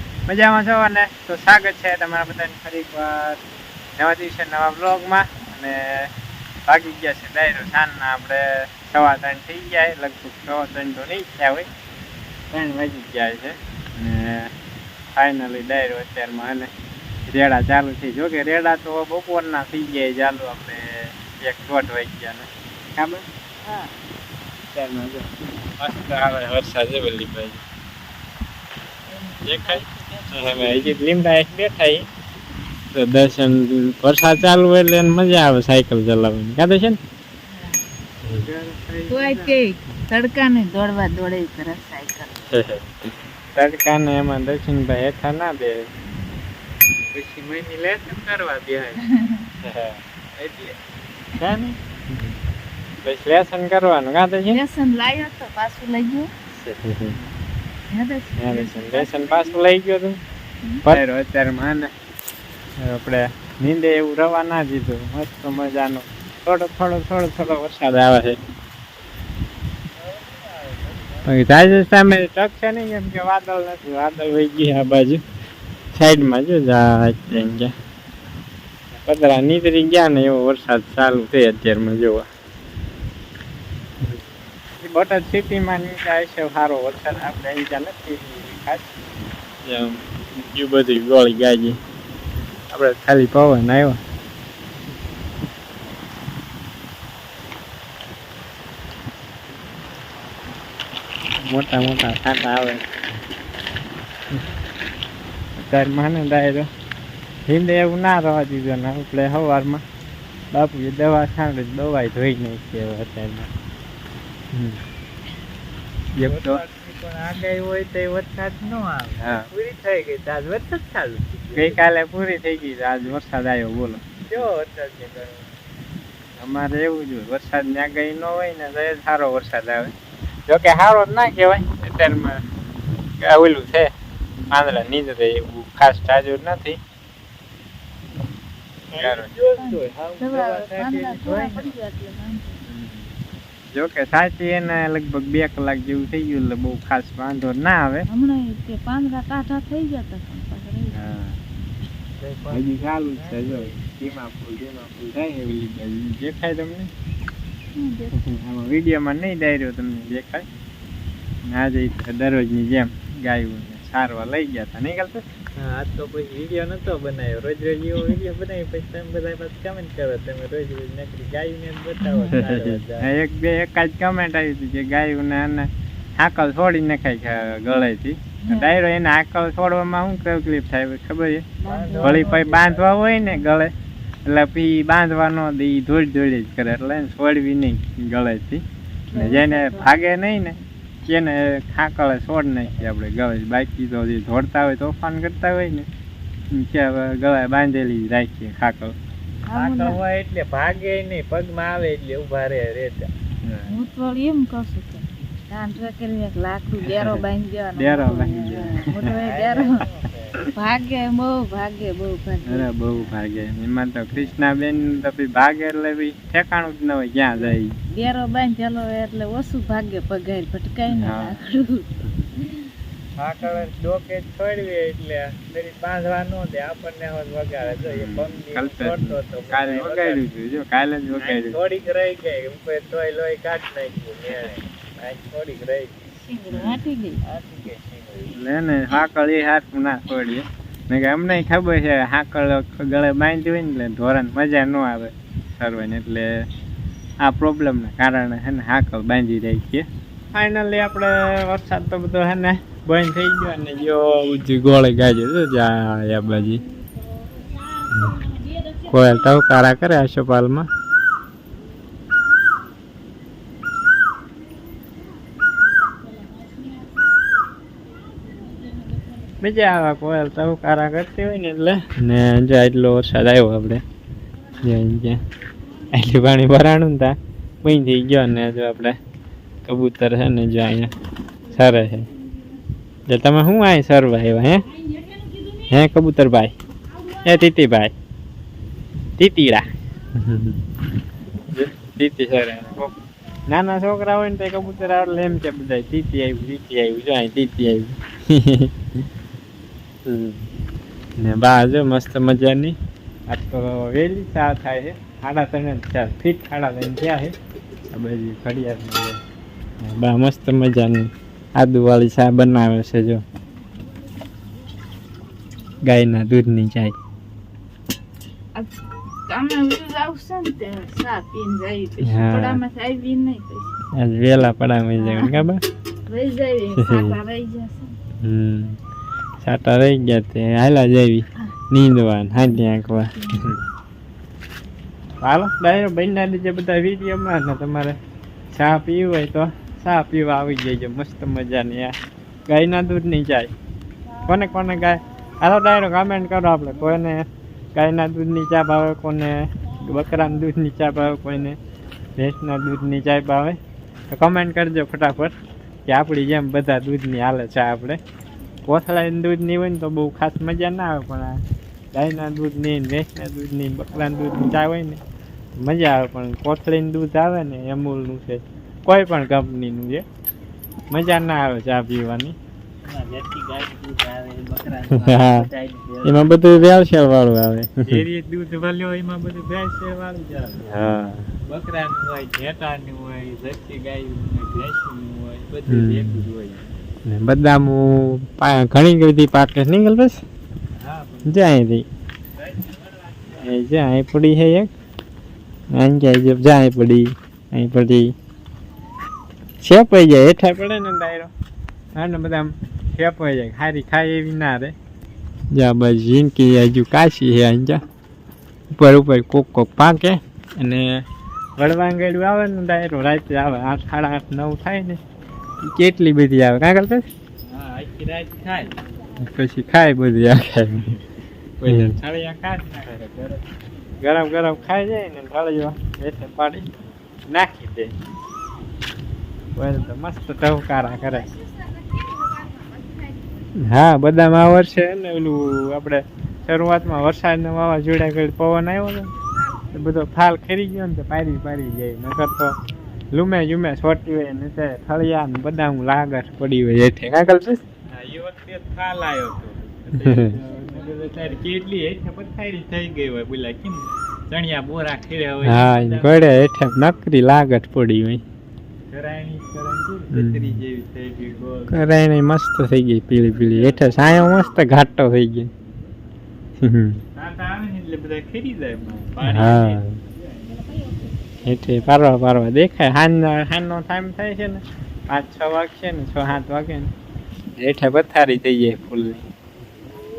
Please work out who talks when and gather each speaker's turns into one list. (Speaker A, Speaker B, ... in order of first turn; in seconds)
Speaker A: 0.3-3.4, 4.0-6.1, 6.7-11.7, 12.5-14.5, 15.2-16.7, 17.3-23.9, 24.7-27.6, 29.4-32.1, 32.9-37.0, 42.5-45.8, 49.6-50.0, 52.1-52.4, 53.0-54.6, 56.6-57.2, 58.4-60.2, 60.9-61.9, 62.8-68.4, 71.2-75.2, 75.9-77.7, 79.0-82.2, 84.8-88.9, 89.7-91.8, 92.7-94.0, 101.4-102.8, 105.6-106.7, 107.5-109.8, 110.5-113.5, 114.5-114.8, 116.2-116.6, 119.2-119.5, 121.5-124.4, 126.4-129.9, 130.5-132.4, 133.2-133.9, 134.5-136.8, 139.0-139.3, 142.7-143.1, 143.7-148.1, 150.9-151.4, 152.5-156.9, 158.1-160.5, 161.4-165.2, 172.3-181.4, 182.0-183.7, 184.2-195.9, 196.5-198.9, 206.9-207.2, 207.8-209.1, 212.4-217.8, 220.9-221.4, 227.8-231.6, 236.5-236.8, 238.3-246.3, 247.2-256.6, 257.9-258.2, 258.9-260.7, 269.4-273.8, 274.6-275.2, 275.9-279.0, 279.6-280.9, 281.5-282.1, 283.1-284.6, 285.7-286.5, 287.2-287.9, 289.2-290.6, 291.5-292.9, 293.5-298.7, 300.1-300.5, 301.2-302.8, 303.3-307.4, 307.9-309.2, 309.8-313.2, 315.8-316.9, 322.0-322.6, 324.0-325.6, 326.8-327.1, 328.2-328.8, 329.4-333.6, 335.2-338.0, 338.5-342.0, 342.5-343.5, 344.3-351.6, 352.2-353.6, 354.1-355.3, 355.9-358.0, 358.7-361.4, 361.9-365.0, 365.6-370.1, 370.9-372.4, 375.0-375.5, 376.0-378.0, 380.6-381.3, 385.7-386.3, 387.1-390.2, 391.3-391.9, 393.4-394.7, 395.7-398.1, 399.6-401.3, 401.9-404.8, 405.5-407.8, 408.7-411.0, 411.6-415.0, 415.6-417.0, 419.2-420.9, 421.7-422.0, 424.0-426.6, 427.3-427.9, 429.6-431.3, 433.6-439.1, 439.7-442.6, 443.1-447.6, 450.0-450.3, 455.4-458.2, 460.1-460.6, 461.7-465.5, 466.6-467.0, 469.2-470.0, 471.4-476.9, 477.6-479.2
Speaker B: 29.5-29.8, 37.5-37.8, 39.1-42.5, 49.1-49.5, 54.5-56.3, 57.9-59.6, 139.6-142.6, 148.1-151.0, 157.8-158.3, 172.0-172.4, 178.4-178.8, 181.6-182.4, 189.1-189.9, 199.5-200.0, 203.7-209.9, 210.4-212.7, 217.9-221.8, 236.2-237.2, 318.6-323.8, 325.0-325.4, 326.1-328.0
Speaker C: 38.3-39.6, 47.0-49.0, 50.4-50.8, 51.4-51.8, 70.0-71.7, 116.2-121.8, 124.3-125.5, 138.9-141.8, 152.2-153.7, 165.6-173.1, 181.7-183.0, 199.5-203.1, 209.0-210.4, 223.2-230.2, 231.2-236.0, 237.2-238.3, 372.8-376.7, 377.9-380.7, 381.4-386.7, 390.8-391.4, 392.4-393.5, 417.4-418.8, 421.6-423.4, 447.9-457.1, 458.9-461.9, 463.5-464.0, 467.1-469.8